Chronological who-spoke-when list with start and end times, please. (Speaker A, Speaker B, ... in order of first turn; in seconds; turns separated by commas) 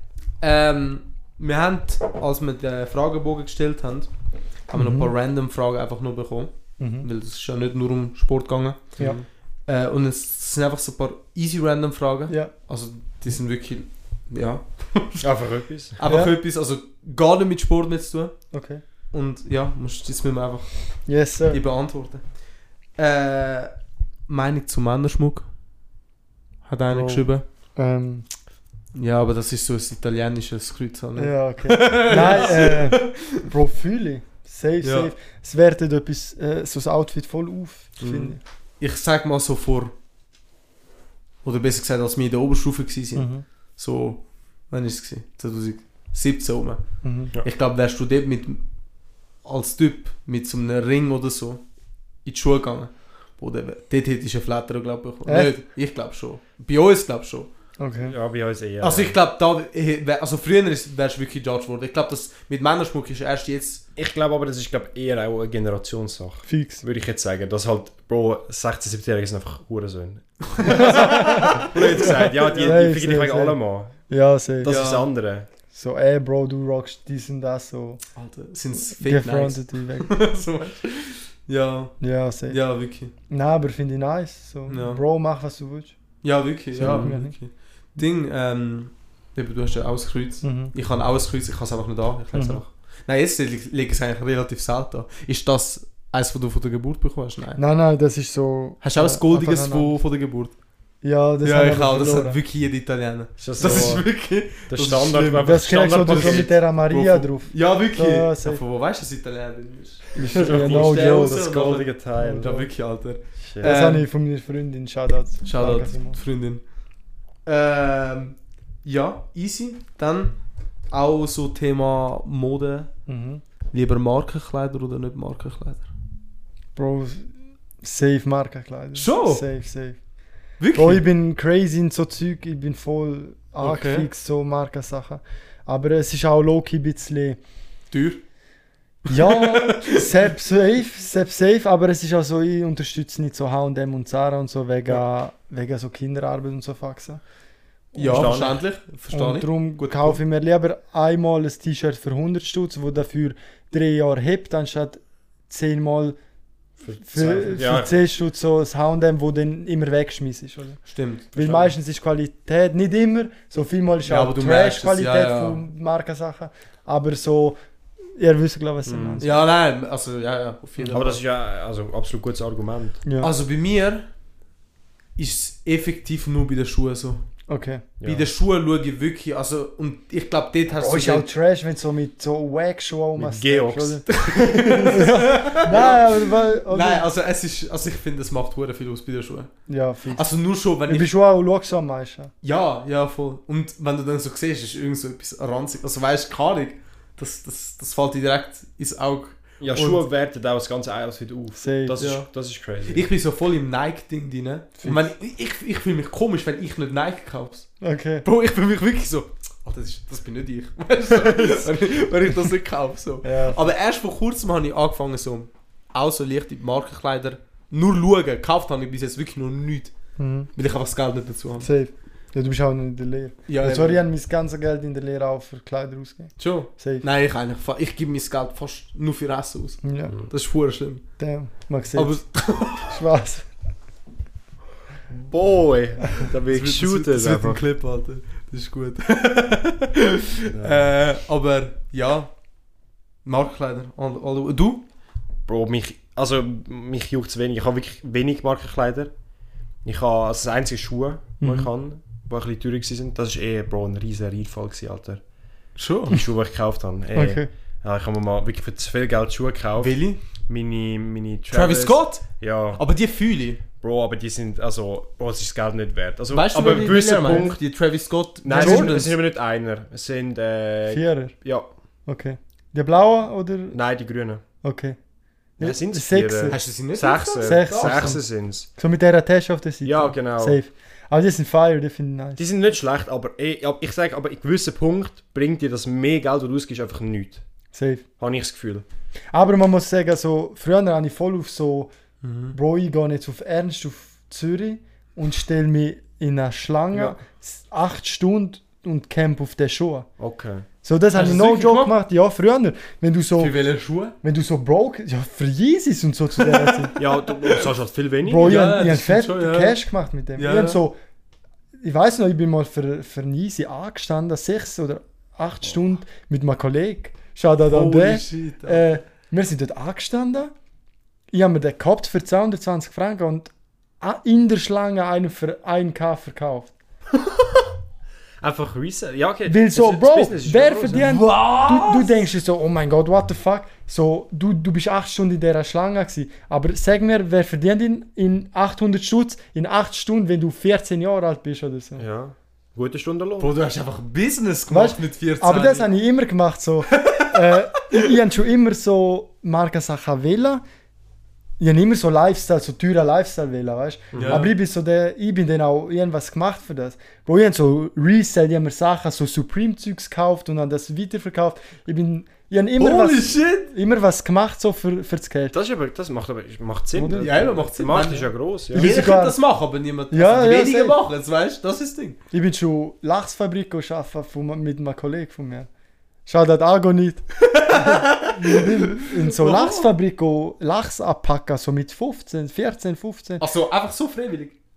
Speaker A: 0.4-4.1, Speaker A: 4.7-9.0, Speaker B: 4.7-5.1, Speaker B: 6.8-7.1, Speaker C: 9.0-9.2, Speaker A: 9.7-15.3, Speaker C: 15.2-16.0, Speaker A: 16.0-18.4, Speaker B: 16.1-16.4, Speaker B: 18.5-18.8, Speaker A: 19.1-20.7, Speaker B: 21.1-21.6, Speaker A: 21.5-22.2, Speaker A: 23.0-23.7, Speaker A: 24.3-25.5, Speaker A: 26.6-27.4, Speaker B: 26.9-28.3, Speaker A: 28.9-33.5, Speaker B: 31.2-38.4, Speaker A: 34.8-35.1, Speaker C: 38.0-38.3, Speaker A: 38.8-39.9, Speaker A: 41.4-46.8, Speaker B: 43.2-43.5, Speaker B: 47.0-47.3, Speaker A: 47.4-48.6, Speaker A: 49.4-51.6, Speaker A: 52.2-57.5, Speaker B: 55.3-55.5, Speaker B: 57.8-58.2, Speaker C: 58.0-59.1, Speaker A: 58.8-63.8, Speaker C: 64.0-74.0, Speaker B: 66.5-66.8, Speaker A: 70.6-72.6, Speaker B: 70.7-73.6, Speaker B: 74.1-74.8, Speaker C: 74.6-75.5, Speaker A: 74.7-75.1, Speaker B: 75.7-78.0, Speaker A: 78.2-82.0, Speaker B: 78.8-80.2, Speaker B: 82.0-82.6, Speaker A: 82.5-83.1, Speaker B: 83.3-86.0, Speaker A: 84.7-85.0, Speaker A: 86.2-97.6, Speaker B: 86.7-87.4, Speaker B: 90.4-90.7, Speaker B: 92.3-92.6, Speaker B: 97.6-100.0, Speaker A: 98.8-100.5, Speaker B: 101.0-102.4, Speaker A: 101.4-114.1, Speaker C: 103.4-104.1, Speaker B: 103.6-104.0, Speaker C: 104.7-106.5, Speaker B: 105.4-108.6, Speaker B: 110.2-111.5, Speaker C: 110.3-112.6, Speaker B: 112.2-112.7, Speaker C: 113.5-113.7, Speaker B: 113.6-116.2, Speaker A: 115.4-116.6, Speaker A: 117.5-120.4, Speaker A: 120.9-122.9, Speaker B: 123.1-123.4, Speaker A: 123.7-125.9, Speaker B: 126.8-127.3, Speaker B: 127.8-130.0, Speaker A: 128.9-129.4, Speaker A: 130.6-131.1, Speaker B: 130.7-137.4, Speaker A: 133.6-134.1, Speaker A: 137.9-138.2, Speaker A: 139.1-140.1, Speaker B: 139.1-147.2, Speaker B: 147.9-148.6, Speaker A: 148.0-150.2, Speaker C: 148.1-148.6, Speaker B: 149.1-156.2, Speaker C: 156.8-158.0, Speaker B: 157.0-160.8, Speaker A: 157.2-157.5, Speaker A: 160.9-161.3, Speaker C: 161.3-161.7, Speaker B: 161.3-167.6, Speaker A: 164.1-165.6, Speaker B: 168.1-169.4, Speaker C: 168.9-169.2, Speaker A: 169.2-171.2, Speaker C: 170.9-173.0, Speaker B: 173.1-173.3, Speaker A: 173.2-174.1, Speaker A: 175.2-177.3, Speaker B: 177.5-177.8, Speaker C: 178.0-178.3, Speaker A: 178.0-181.3, Speaker B: 180.7-184.1, Speaker C: 183.2-184.2, Speaker A: 184.1-189.5, Speaker B: 184.7-187.1, Speaker B: 189.7-190.3, Speaker A: 190.1-191.1, Speaker B: 190.9-192.3, Speaker A: 192.4-200.0, Speaker C: 199.6-203.1, Speaker B: 201.6-202.0, Speaker A: 202.0-202.3, Speaker A: 202.9-207.7, Speaker B: 204.8-205.1, Speaker B: 207.8-208.3, Speaker A: 208.2-219.9, Speaker B: 213.2-213.6, Speaker B: 220.2-220.5, Speaker A: 220.5-221.7, Speaker B: 221.6-227.1, Speaker A: 223.5-224.0, Speaker A: 226.4-231.0, Speaker B: 229.8-230.1, Speaker B: 231.2-232.2, Speaker A: 231.9-233.0, Speaker B: 232.8-233.5, Speaker C: 235.1-237.6, Speaker A: 236.5-242.3, Speaker C: 240.5-240.8, Speaker A: 243.2-244.8, Speaker C: 245.5-249.1, Speaker C: 249.8-255.2, Speaker B: 251.4-251.7, Speaker A: 255.8-256.2, Speaker C: 256.1-262.8, Speaker B: 257.1-257.5, Speaker A: 259.8-260.2, Speaker A: 261.5-263.6, Speaker C: 263.8-267.6, Speaker A: 266.3-269.2, Speaker C: 268.4-271.7, Speaker B: 268.6-269.0, Speaker B: 270.9-271.4, Speaker B: 272.1-273.8, Speaker C: 273.7-274.4, Speaker B: 274.6-275.0, Speaker B: 275.6-276.6, Speaker C: 275.6-278.7, Speaker A: 276.5-278.2, Speaker B: 277.4-278.2, Speaker B: 278.8-282.4, Speaker C: 279.9-280.6, Speaker C: 282.4-287.4, Speaker B: 287.7-288.1, Speaker C: 288.2-288.8, Speaker B: 289.3-291.9, Speaker A: 292.2-292.6, Speaker B: 292.5-300.1, Speaker C: 300.2-300.7, Speaker B: 300.8-303.5, Speaker A: 301.1-301.9, Speaker A: 303.4-304.1, Speaker B: 304.2-306.9, Speaker A: 306.4-307.6, Speaker C: 307.0-308.7, Speaker B: 308.2-311.0, Speaker A: 308.4-309.8, Speaker A: 310.4-310.8, Speaker B: 311.8-320.5, Speaker A: 317.7-318.8, Speaker B: 321.3-326.7, Speaker C: 328.4-331.2, Speaker B: 329.5-342.0, Speaker A: 331.0-332.1, Speaker C: 342.0-343.5, Speaker A: 343.4-345.9, Speaker B: 344.7-350.6, Speaker A: 346.9-347.6, Speaker B: 351.6-365.6, Speaker C: 354.1-354.5, Speaker A: 354.1-354.5, Speaker A: 362.8-363.7, Speaker C: 365.5-368.9, Speaker B: 366.9-368.1, Speaker A: 367.2-372.2, Speaker B: 368.7-369.4, Speaker B: 370.1-371.0, Speaker B: 372.3-375.7, Speaker B: 376.3-383.4, Speaker A: 377.4-379.9, Speaker A: 383.4-384.5